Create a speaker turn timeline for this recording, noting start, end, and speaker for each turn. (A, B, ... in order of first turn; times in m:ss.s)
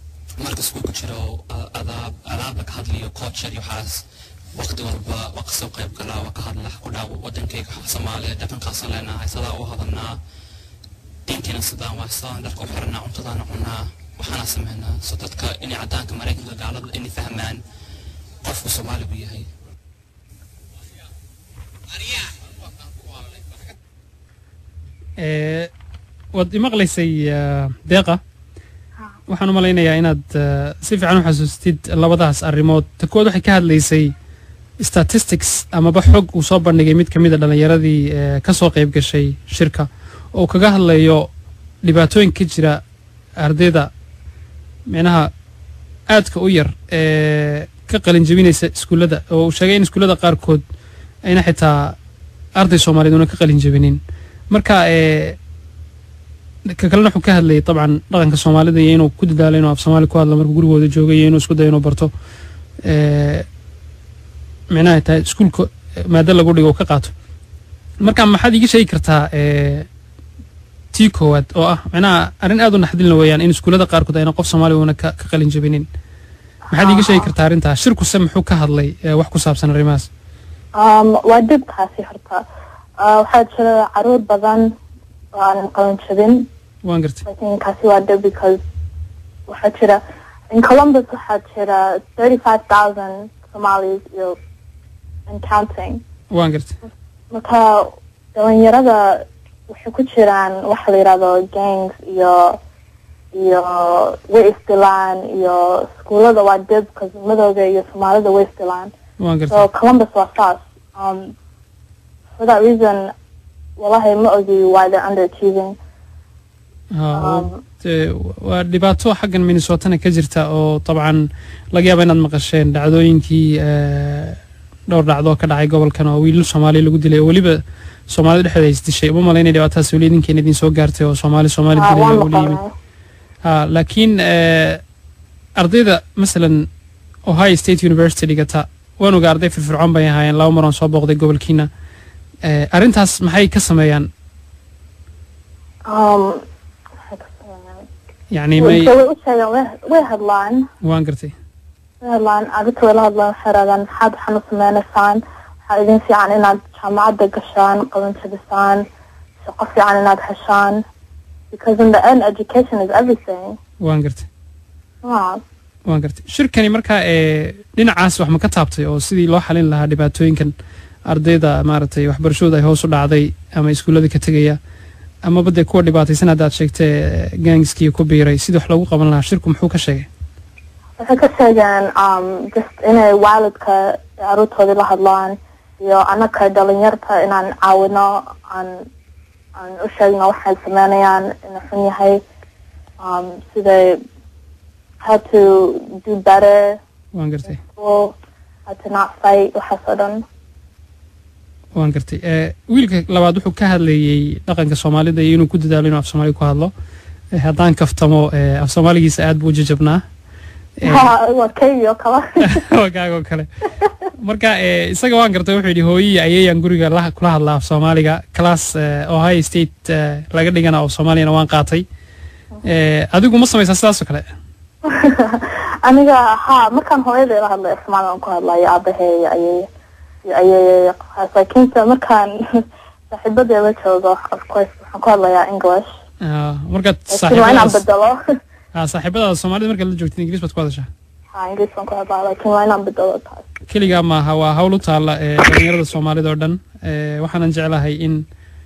0:00.4-0:10.2 A
0:11.3-0:17.6 A
0:18.4-0:19.5 A
0:25.2-0:25.7 B
0:26.3-0:28.2 B
0:29.3-0:34.1 B
0:34.8-0:41.3 B
0:41.8-0:42.8 B
0:43.4-0:43.9 B
0:44.9-0:45.3 B
0:46.1-0:50.6 B
0:51.2-0:52.0 B
0:52.6-0:55.4 B
0:56.7-1:02.1 B
1:02.8-1:03.5 B
1:04.7-1:07.1 B
1:08.0-1:09.9 B
1:10.9-1:15.9 B
1:16.7-1:17.3 C
1:16.7-1:20.1 B
1:20.8-1:22.4 C
1:23.0-1:24.7 C
1:25.3-1:26.5 C
1:26.8-1:27.2 B
1:27.2-1:28.6 C
1:29.5-1:34.4 C
1:35.3-1:36.0 C
1:36.3-1:36.8 B
1:37.3-1:42.6 C
1:43.3-1:48.9 C
1:49.2-1:49.7 B
1:49.5-1:51.3 C
1:52.4-1:53.1 C
1:53.8-1:55.8 C
1:56.9-2:12.6 B
1:57.2-1:57.6 C
2:11.7-2:12.7 C
2:13.4-2:14.8 B
2:15.6-2:16.7 B
2:17.3-2:21.7 B
2:22.4-2:24.1 B
2:25.9-2:26.4 C
2:27.1-2:27.9 C
2:28.3-2:28.9 B
2:28.6-2:30.7 C
2:30.8-2:31.3 B
2:32.0-2:38.9 C
2:39.4-2:40.8 C
2:41.5-2:43.6 C
2:43.8-2:44.3 B
2:45.0-2:45.4 C
2:45.9-2:50.5 B
2:51.1-2:54.6 B
2:55.2-3:00.1 B
3:01.0-3:08.9 C
3:09.6-3:12.2 C
3:13.0-3:14.0 C
3:15.0-3:16.8 C
3:17.1-3:17.6 B
3:17.5-3:18.1 C
3:18.7-3:20.2 C
3:21.8-3:26.7 B
3:27.3-3:30.0 B
3:30.8-3:31.1 B
3:30.8-3:32.6 C
3:32.4-3:41.8 B
3:42.6-3:44.3 B
3:44.8-3:49.7 C
3:50.2-3:55.9 C
3:56.2-3:57.8 B
3:57.1-3:58.2 C
3:58.8-4:00.9 B
4:01.3-4:03.5 C
4:03.7-4:08.2 B